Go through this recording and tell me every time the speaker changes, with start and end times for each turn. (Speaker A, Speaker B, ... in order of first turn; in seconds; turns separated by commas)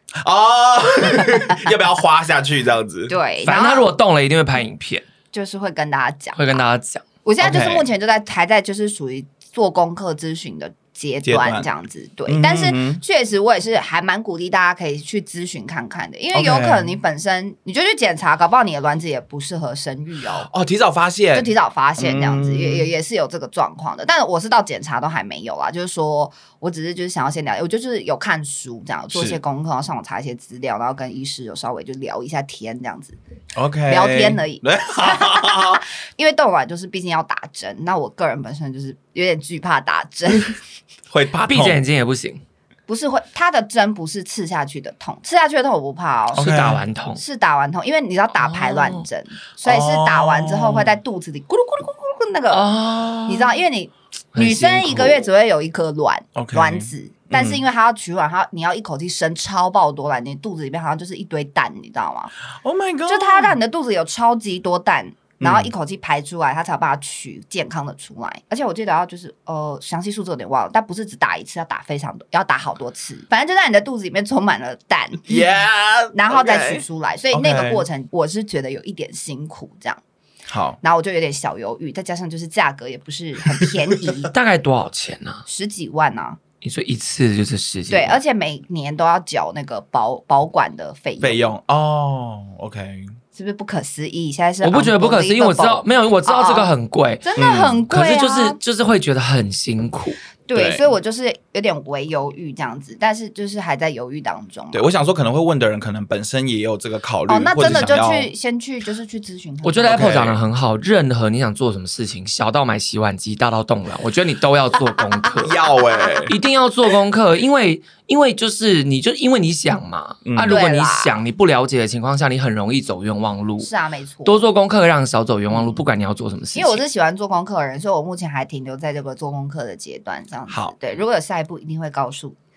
Speaker A: 0.2-3.1, Speaker B: 3.1-3.9, Speaker C: 3.4-5.0, Speaker B: 5.3-6.6, Speaker C: 6.3-7.0, Speaker B: 7.2-20.5, Speaker A: 7.4-7.8, Speaker A: 11.2-11.7, Speaker A: 12.3-13.0, Speaker A: 16.3-17.0, Speaker A: 20.4-22.9, Speaker B: 21.3-33.2, Speaker A: 29.1-29.4, Speaker A: 33.5-35.8, Speaker B: 33.9-40.5, Speaker A: 41.1-41.8, Speaker C: 41.4-42.4, Speaker B: 42.9-46.5, Speaker A: 46.3-46.8, Speaker C: 46.4-47.2, Speaker B: 47.1-52.7, Speaker C: 48.4-49.0, Speaker A: 49.6-50.9, Speaker C: 52.5-53.6, Speaker B: 53.2-62.3, Speaker C: 54.3-55.3, Speaker A: 56.4-57.6, Speaker A: 62.6-63.6, Speaker B: 63.1-75.3, Speaker A: 65.4-65.7, Speaker A: 75.3-77.8, Speaker B: 76.1-80.0, Speaker A: 80.5-80.8, Speaker B: 80.8-84.3, Speaker C: 84.3-85.4, Speaker B: 85.5-86.4, Speaker C: 86.6-88.2, Speaker B: 87.9-91.4, Speaker A: 91.2-93.1, Speaker B: 93.3-96.7, Speaker C: 94.6-97.3, Speaker B: 97.2-98.6, Speaker A: 97.4-97.8, Speaker C: 97.9-100.2, Speaker B: 100.5-104.9, Speaker A: 100.5-100.8, Speaker A: 104.7-108.3, Speaker B: 107.3-110.1, Speaker C: 109.6-115.6, Speaker A: 109.8-110.4, Speaker A: 115.4-116.3, Speaker C: 116.3-123.7, Speaker A: 120.2-120.6, Speaker B: 120.4-121.2, Speaker B: 123.6-124.4, Speaker C: 124.2-126.8, Speaker B: 126.5-132.3, Speaker A: 130.5-130.7